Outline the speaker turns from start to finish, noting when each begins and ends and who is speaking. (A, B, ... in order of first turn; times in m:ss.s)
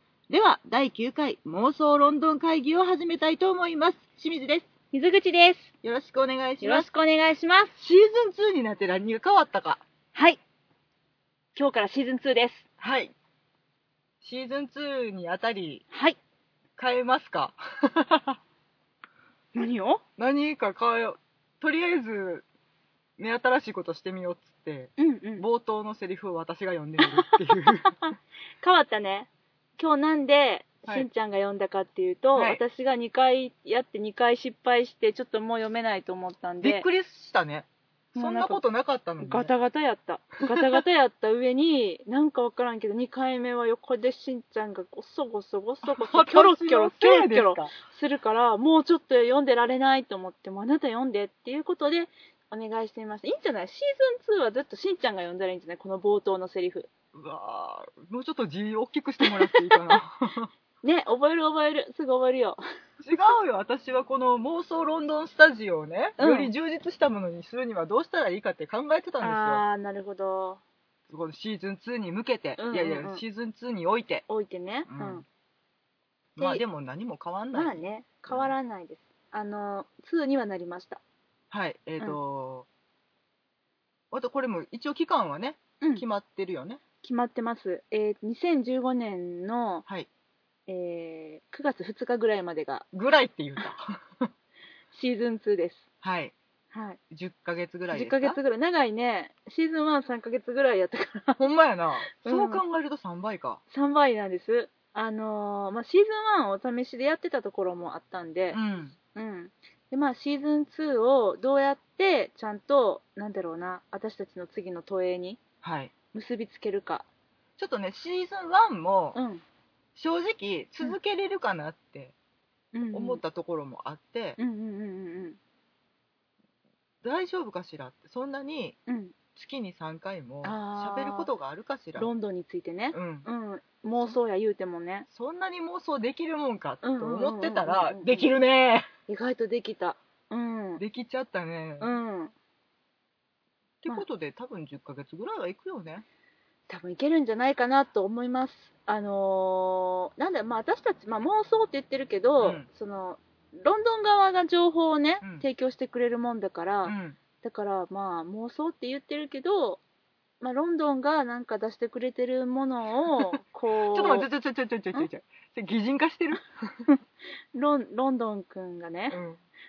0:00.3-0:04.7 A
0:04.9-0:05.7 B
0:05.8-0:06.9 A
0:06.6-0:07.8 B
0:07.8-0:09.8 A
0:10.2-0:10.4 B
0:11.6-0:12.7 B
0:12.8-0:13.1 A
0:14.2-0:15.8 A
0:15.9-0:16.2 B
0:16.8-0:18.4 A
0:19.6-0:20.0 B
0:20.2-0:22.4 A
0:23.2-0:28.0 A
0:25.0-0:25.5 B
0:27.0-0:36.9 B
0:32.4-0:32.6 A
0:36.6-0:39.5 A
0:38.2-0:38.6 B
0:39.2-0:56.9 B
0:45.8-0:47.8 A
0:57.1-1:00.5 A
0:59.2-1:00.0 B
1:00.8-1:02.6 B
1:03.0-1:09.6 A
1:06.2-1:06.5 B
1:09.2-1:10.6 B
1:11.1-1:14.3 A
1:12.6-1:13.2 B
1:14.3-1:15.2 B
1:14.9-1:15.2 A
1:16.4-1:18.5 A
1:17.5-1:21.0 B
1:21.5-1:22.7 A
1:24.1-1:26.8 A
1:25.8-1:26.1 B
1:27.0-1:29.8 B
1:30.7-1:32.9 B
1:32.9-1:34.3 A
1:34.9-1:35.9 B
1:36.0-1:36.3 A
1:36.7-1:37.0 B
1:37.1-1:38.4 A
1:37.9-1:41.4 B
1:41.4-1:43.6 A
1:42.1-1:42.6 B
1:43.7-1:48.6 B
1:48.5-1:49.0 A
1:49.1-1:55.4 B
1:55.6-1:55.9 A
1:56.1-1:57.1 B
1:57.6-1:59.2 A
1:59.2-1:59.4 B
2:00.0-2:02.1 A
2:02.7-2:03.2 B
2:02.9-2:04.4 A
2:04.4-2:05.4 B
2:07.0-2:08.8 A
2:08.9-2:09.2 B
2:09.4-2:12.1 A
2:10.4-2:11.3 B
2:12.0-2:15.1 B
2:12.9-2:13.3 A
2:15.1-2:18.9 A
2:16.8-2:18.3 B
2:19.1-2:20.8 B
2:20.8-2:21.9 A
2:21.8-2:22.3 B
2:23.8-2:26.0 A
2:26.7-2:39.8 B
2:32.4-2:32.7 A
2:36.8-2:37.2 A
2:40.4-2:44.3 B
2:43.9-2:46.8 A
2:47.6-2:49.2 B
2:49.1-2:49.4 A